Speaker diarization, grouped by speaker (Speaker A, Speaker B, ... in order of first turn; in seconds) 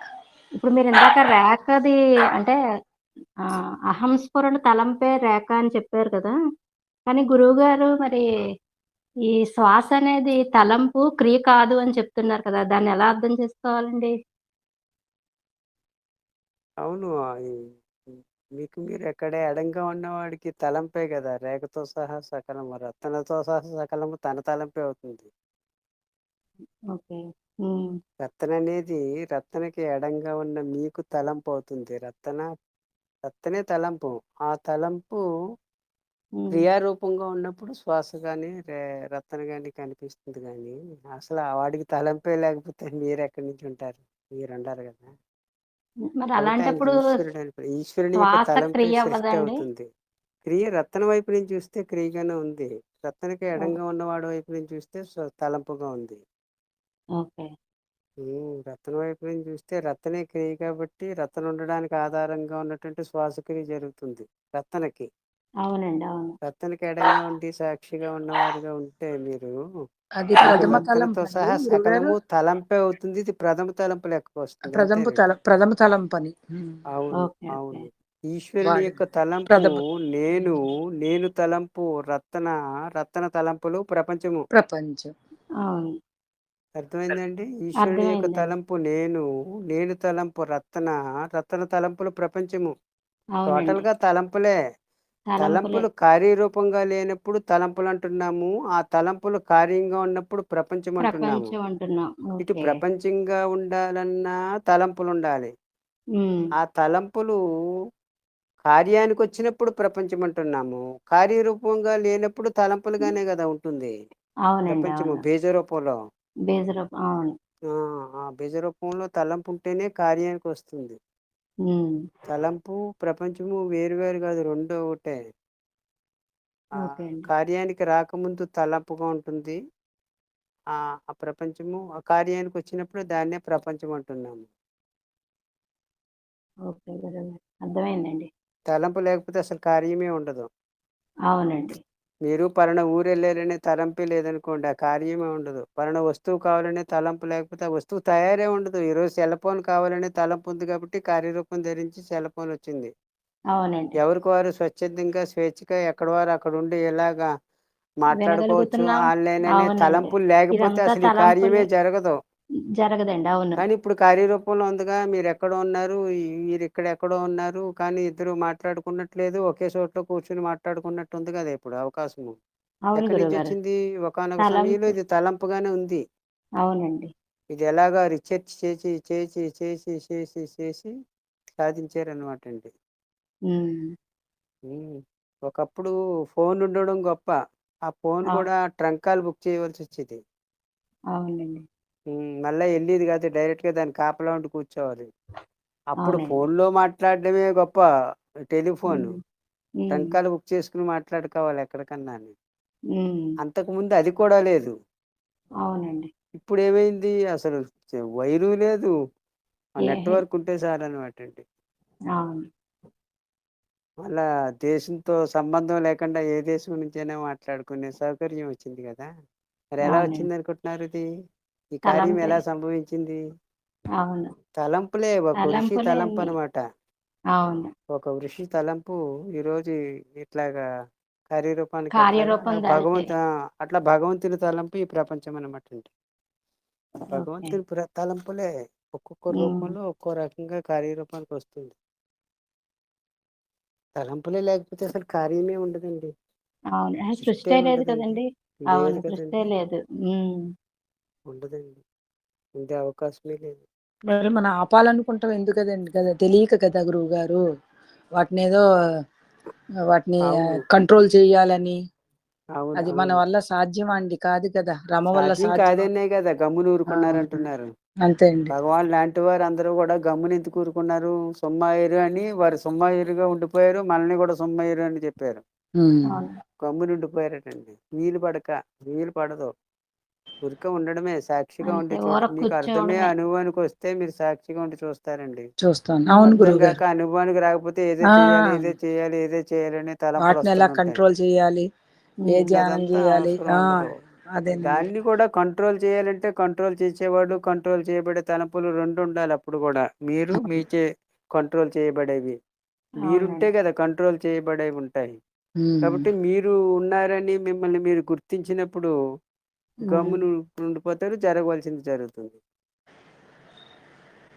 Speaker A: 0.6-2.6, 3.9-6.3, 7.1-8.2, 9.6-14.1, 26.9-27.9, 46.2-47.0, 48.2-49.6, 57.2-57.5, 65.7-66.3, 70.5-70.8, 77.2-77.8, 85.7-85.9, 87.8-88.5, 93.4-93.8, 95.3-95.8, 101.0-102.8, 114.5-115.2, 116.5-117.3, 121.7-121.9, 126.8-127.2, 136.7-138.3, 141.3-141.8, 153.6-154.0, 158.2-159.0, 159.5-161.7, 162.8-163.6, 172.9-173.5, 174.4-174.9, 176.6-177.1, 183.5-183.8, 191.2-191.6, 196.1-196.4, 198.9-199.2, 199.9-200.1, 203.0-203.2, 205.7-206.1, 209.8-210.2, 212.2-212.4, 219.9-220.3, 221.9-222.4, 224.0-224.3, 225.4-226.2, 227.4-227.7, 231.9-233.1, 237.1-237.5, 239.4-239.7, 246.8-250.4, 276.1-276.4, 281.7-283.1, 303.1-303.5, 309.9-310.2
Speaker B: 16.8-25.3, 28.2-32.5, 33.2-35.2, 36.5-45.1, 46.4-49.9, 50.5-56.2, 58.2-65.1, 66.5-69.5, 70.4-75.2, 76.9-84.4, 86.8-92.7, 93.5-94.5, 95.4-101.5, 102.4-105.5, 106.6-107.4, 108.7-113.9, 114.7-116.0, 117.7-121.0, 122.3-125.2, 127.2-129.6, 130.8-134.5, 138.7-140.5, 142.3-152.9, 154.0-157.3, 158.0-162.2, 163.6-166.0, 166.5-172.4, 172.9-176.0, 177.5-180.9, 181.6-182.7, 184.7-187.3, 187.9-190.2, 192.1-195.1, 195.9-197.8, 198.5-199.2, 199.9-202.3, 203.4-204.7, 206.4-208.9, 209.8-211.4, 214.0-219.1, 219.8-221.1, 221.7-223.2, 224.6-226.6, 227.9-230.6, 231.3-235.9, 237.1-241.8, 244.0-246.1, 247.2-249.5, 251.3-251.8, 252.6-253.6, 260.3-260.6, 262.6-263.2, 265.2-267.7, 268.5-275.4, 276.6-279.5, 280.4-285.5, 286.3-291.0, 292.5-293.9, 294.6-300.8, 301.4-302.4, 303.0-305.2, 305.8-308.9, 309.9-312.4
Speaker C: 70.2-72.2, 74.7-76.8, 78.7-79.0, 79.5-79.8, 84.5-85.1, 254.1-257.4, 258.2-258.6, 259.9-261.8, 262.8-265.9, 266.9-267.4, 268.1-268.5, 275.8-276.2, 285.6-286.8, 288.1-288.7, 290.2-291.6, 292.3-294.9, 305.6-306.1